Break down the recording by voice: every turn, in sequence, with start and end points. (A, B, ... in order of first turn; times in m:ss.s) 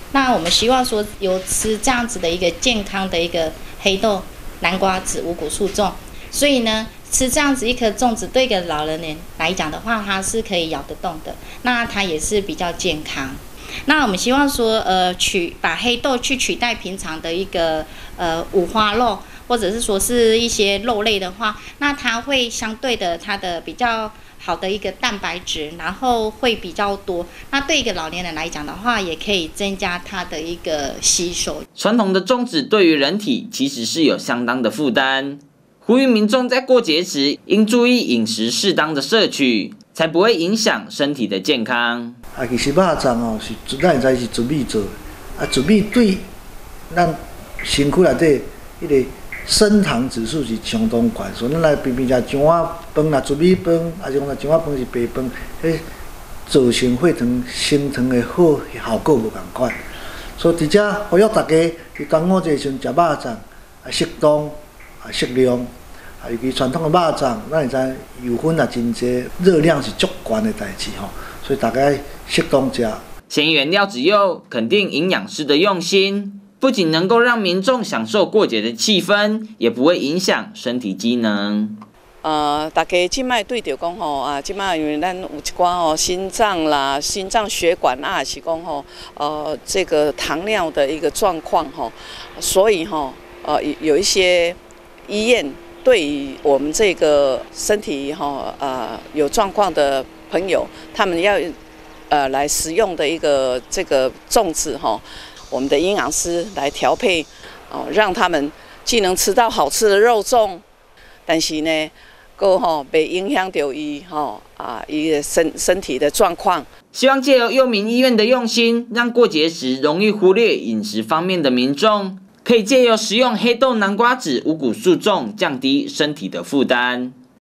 0:00.1-0:31.6 A
0:31.8-0:42.2 B
0:42.4-0:46.2 C
0:46.9-0:55.8 C
0:56.5-0:59.8 C
1:00.4-1:05.7 C
1:06.2-1:13.0 C
1:13.3-1:21.8 B
1:22.2-1:41.6 D
1:42.1-1:50.6 D
1:51.3-1:56.7 D
1:56.9-2:07.1 B